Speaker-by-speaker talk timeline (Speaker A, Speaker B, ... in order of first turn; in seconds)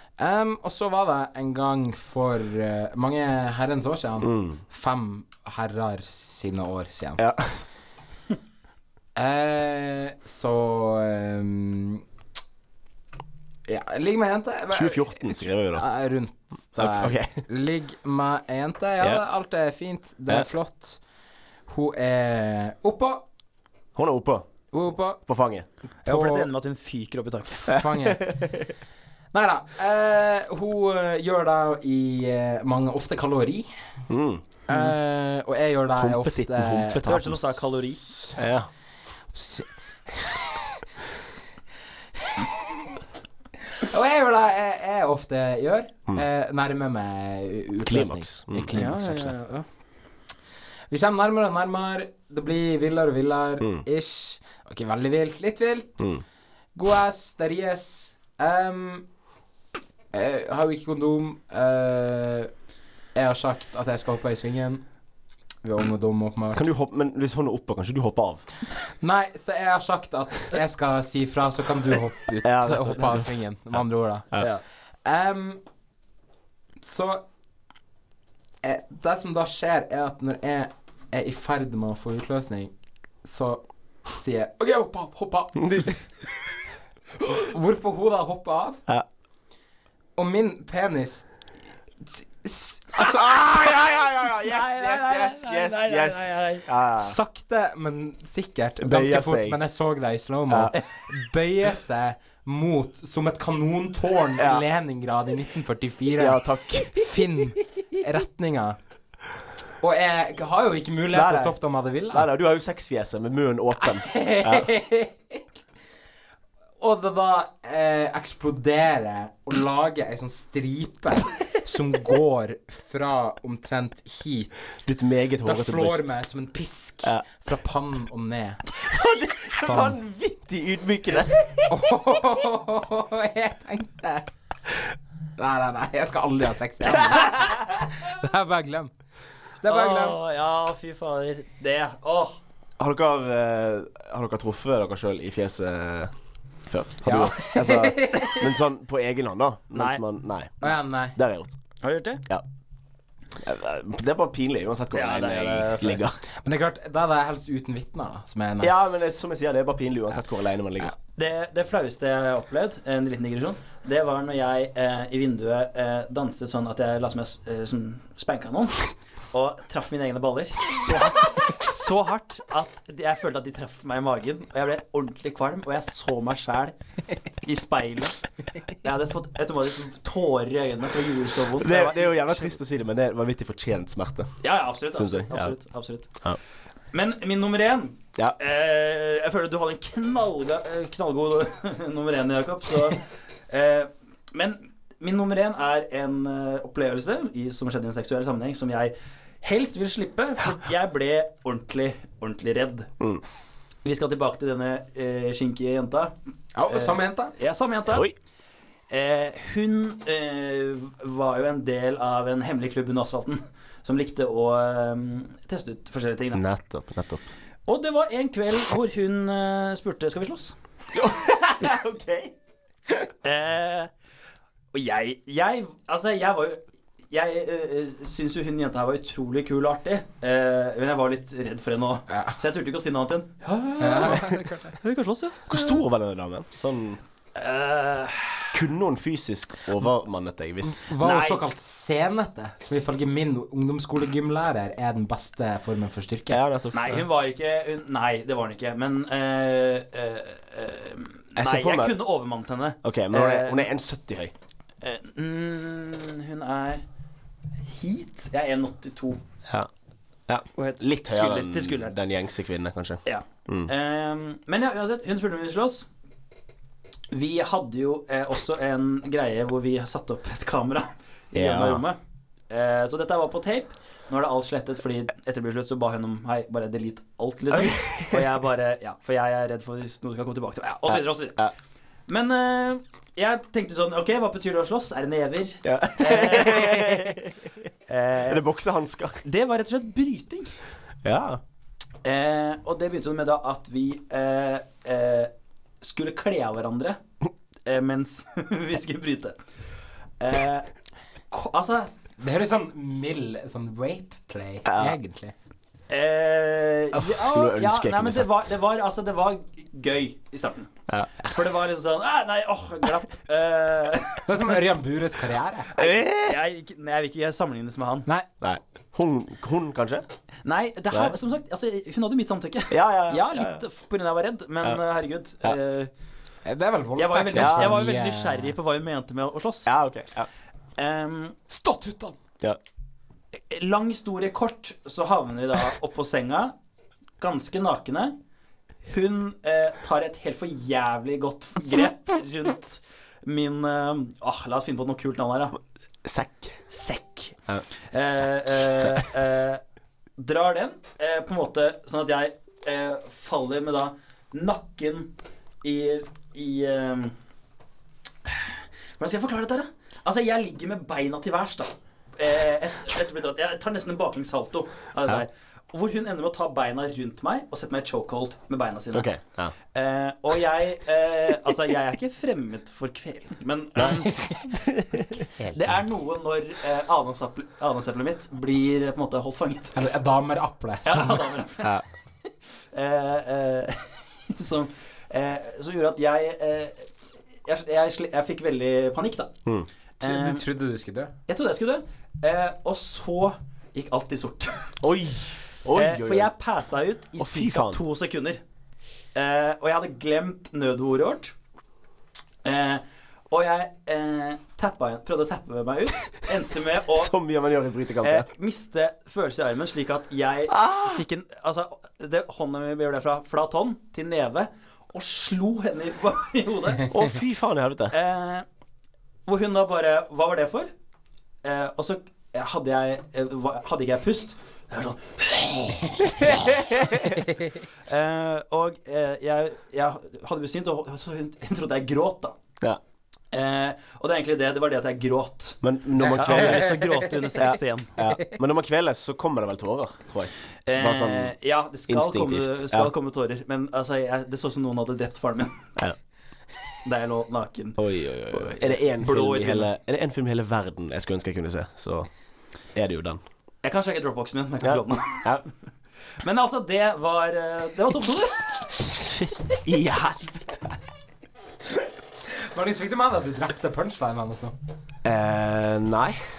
Speaker A: 0.2-7.2, 9.2-12.0, 13.7-21.0, 21.7-23.2, 24.7-25.2, 26.1-26.5, 27.6-28.2, 29.3-33.7, 34.7-37.0, 39.3-39.6, 43.8-49.3, 50.9-56.0, 56.7-59.0, 60.1-62.5, 63.1-64.8, 65.6-66.7, 69.0-74.3, 75.0-75.6, 76.8-77.2, 78.6-82.7, 83.2-86.0, 87.2-88.8, 90.2-91.3, 92.1-93.2, 97.0-106.4, 106.9-108.8, 109.8-112.3, 113.9-115.4, 116.8-124.8, 125.4-128.6, 129.5-130.0, 131.7-134.3, 135.4-138.9, 139.6-140.2, 147.0-148.4, 150.6-151.2, 156.4-159.0, 206.6-207.3, 233.8-234.7, 240.6-246.4, 302.2-305.3, 314.2-315.7, 326.4-328.5, 331.5-332.1, 379.7-381.2, 390.0-391.1, 462.5-464.5
Speaker B: 4.2-4.6, 7.2-7.6, 14.7-15.8, 16.8-17.4, 23.9-24.5, 25.2-25.6, 27.8-28.7, 34.1-34.4, 36.0-37.4, 38.3-38.7, 47.8-48.9, 53.6-53.8, 56.0-56.2, 66.5-68.4, 72.4-73.3, 85.6-85.9, 92.9-97.2, 98.8-99.6, 100.5-100.8, 104.4-104.6, 106.2-107.4, 111.1-111.6, 112.1-114.7, 124.8-126.1, 128.8-131.7, 142.8-146.1, 146.7-151.5, 153.4-156.2, 158.6-160.9, 181.6-184.3, 184.9-185.6, 207.9-208.1, 216.3-217.2, 220.9-222.3, 235.5-237.0, 238.5-240.9, 246.3-247.0, 251.3-252.0, 252.8-254.3, 260.3-263.7, 271.3-271.8, 277.5-278.2, 280.9-281.5, 285.6-287.5, 288.2-289.2, 291.0-291.4, 304.6-304.9, 306.9-308.5, 310.9-311.2, 315.7-316.4, 318.4-320.0, 322.7-323.6, 327.3-327.8, 329.6-330.3, 346.0-346.6, 347.5-348.0, 368.9-369.5, 374.5-375.0, 394.8-396.3, 397.2-397.8, 406.9-408.3, 410.5-411.0, 416.9-417.9, 426.4-427.0, 435.6-441.3, 441.9-442.9, 447.8-452.1, 452.7-453.2, 454.6-455.4, 458.9-460.8, 465.0-466.2
Speaker C: 26.0-27.7, 37.0-38.0, 48.7-49.6, 94.4-96.7, 139.6-142.4, 149.7-150.0, 151.8-152.2, 154.9-156.0, 161.2-176.7, 177.4-178.2, 178.8-182.6, 184.4-186.1, 186.9-202.9, 203.8-206.1, 206.7-208.1, 208.9-216.4, 217.7-220.6, 223.2-223.9, 224.7-235.7, 237.3-238.5, 241.0-241.4, 246.7-253.7, 254.8-256.8, 257.6-259.2, 260.6-261.9, 263.1-265.9, 267.1-272.0, 272.5-281.4, 282.1-287.2, 287.9-288.4, 289.2-290.5, 292.0-297.0, 297.6-299.4, 300.2-300.7, 301.3-301.9, 305.9-310.7, 311.3-314.2, 315.8-318.1, 320.4-325.9, 326.9-329.7, 330.8-331.4, 333.5-336.5, 337.2-338.1, 338.8-345.6, 346.7-347.4, 347.9-349.6, 350.2-355.1, 355.6-357.1, 358.2-369.1, 369.7-374.1, 375.5-379.8, 380.8-381.8, 382.7-386.9, 387.4-389.3, 390.0-390.4, 391.3-394.6, 395.7-398.4, 399.1-401.3, 402.4-407.1, 408.0-417.0, 417.9-418.4, 419.3-420.7, 421.4-427.0, 427.9-432.3, 433.3-437.9, 440.7-445.7, 446.8-449.7, 453.6-455.4, 456.2-458.5